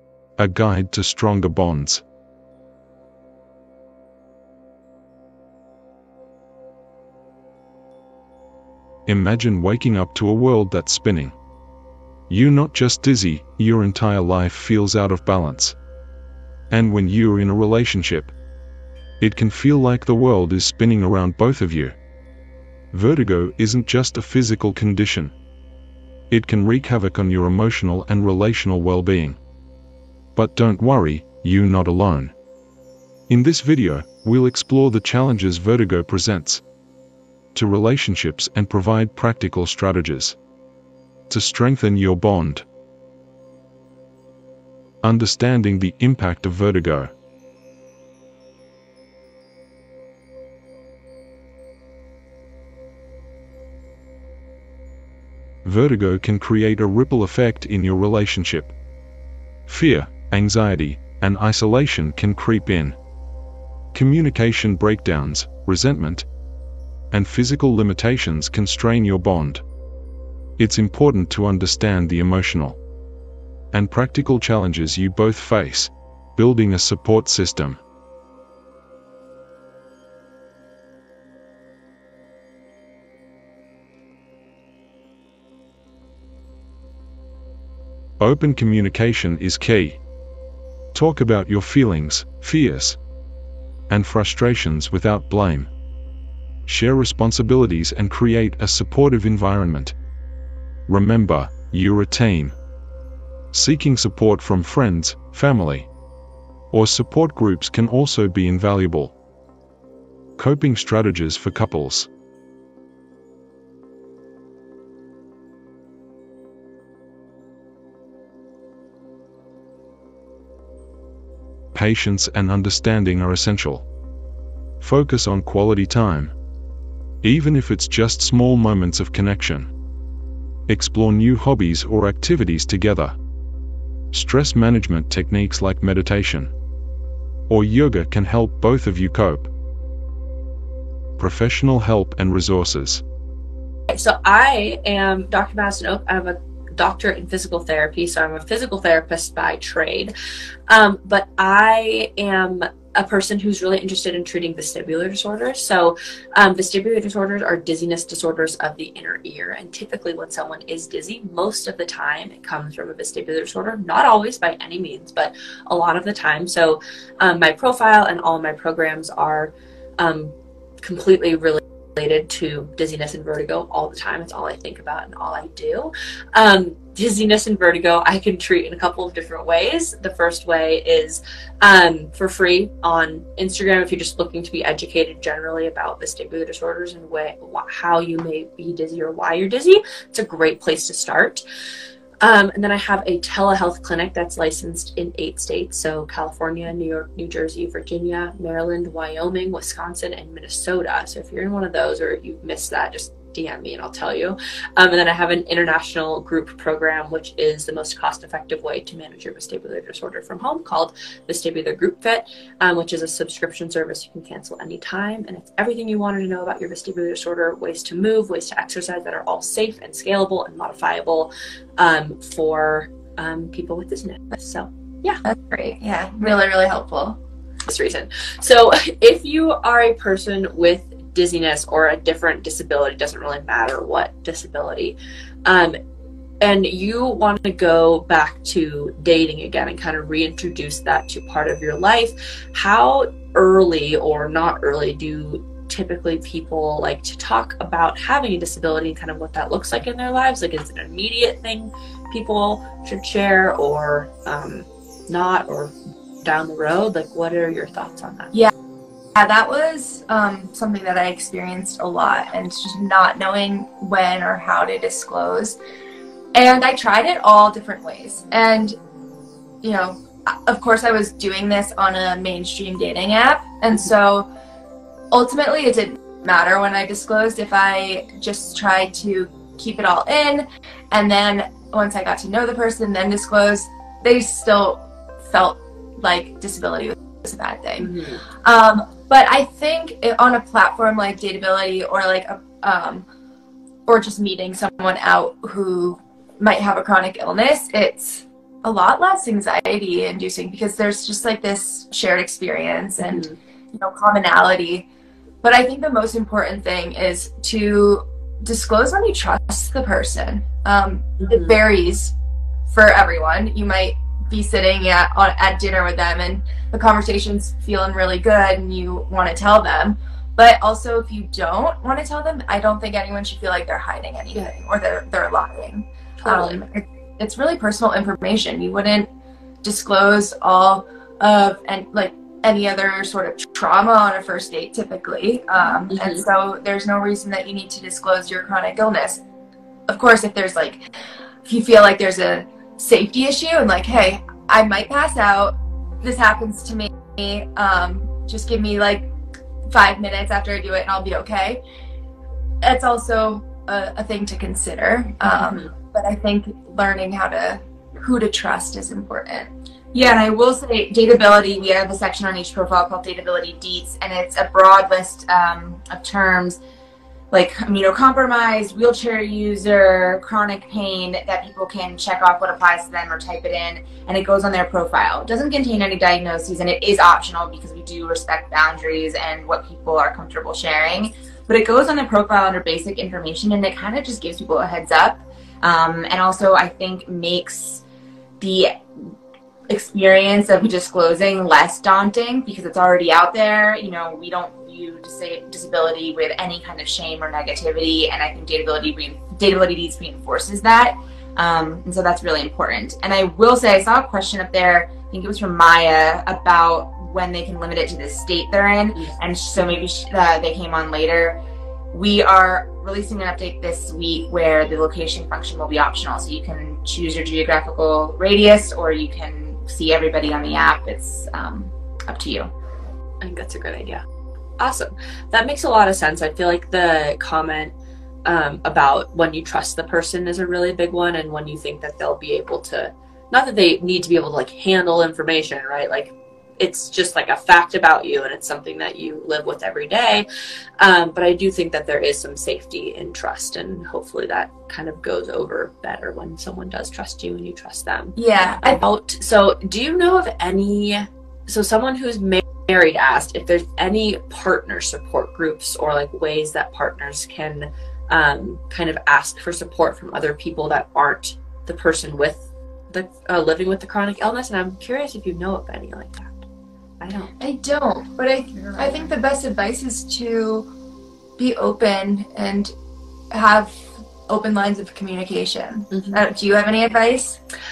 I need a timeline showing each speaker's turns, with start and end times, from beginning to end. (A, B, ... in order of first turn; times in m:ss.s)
0:00.4-0:02.0 A
0:09.1-0:11.3 A
0:12.3-0:15.8 A
0:16.7-0:18.3 A
0:19.2-0:22.0 A
0:22.9-0:25.3 A
0:26.3-0:29.4 A
0:30.3-0:32.3 A
0:33.3-0:36.6 A
0:37.5-0:40.4 A
0:41.3-0:42.6 A
0:45.0-0:47.1 A
0:55.6-0:58.7 A
0:59.7-1:03.0 A
1:03.9-1:06.3 A
1:07.1-1:09.6 A
1:10.6-1:12.8 A
1:13.7-1:17.8 A
1:28.2-1:30.0 A
1:30.9-1:33.0 A
1:33.9-1:35.7 A
1:36.6-1:39.9 A
1:40.9-1:42.6 A
1:43.5-1:45.9 A
1:46.7-1:49.1 A
1:50.4-1:52.1 A
2:01.7-2:03.8 A
2:04.8-2:06.3 A
2:07.2-2:09.7 A
2:10.7-2:13.2 A
2:14.1-2:16.5 A
2:17.5-2:19.5 A
2:21.2-2:23.0 A
2:23.9-2:30.1 B
2:30.7-3:11.4 B
3:12.2-3:45.2 B
3:45.2-3:47.2 C
3:47.6-3:55.8 B
3:56.4-4:18.4 B
4:19.1-4:25.6 C
4:26.3-4:28.8 C
4:29.6-4:34.3 C
4:35.1-4:47.9 C
4:47.8-4:48.2 B
4:48.4-4:53.0 C
4:53.9-5:04.8 C
5:03.0-5:03.4 B
5:05.4-5:12.1 C
5:12.7-5:29.1 C
5:26.2-5:26.6 B
5:29.6-5:39.2 C
5:35.9-5:36.2 B
5:39.9-5:40.8 C
5:41.4-5:49.1 C
5:49.7-5:51.6 C
5:52.6-5:59.5 C
5:55.4-5:55.7 B
5:59.9-6:06.6 D
6:07.3-6:27.8 D
6:28.4-6:28.8 D
6:29.7-6:51.4 D
6:51.9-7:02.5 D
7:03.2-7:04.0 B
7:04.6-7:07.7 B
7:08.2-7:20.2 B
7:20.8-7:46.4 B
7:28.2-7:28.8 C
7:47.0-7:47.3 B
7:47.4-7:50.7 C
7:51.4-7:52.7 C
7:53.3-7:57.4 C
7:55.9-7:56.2 B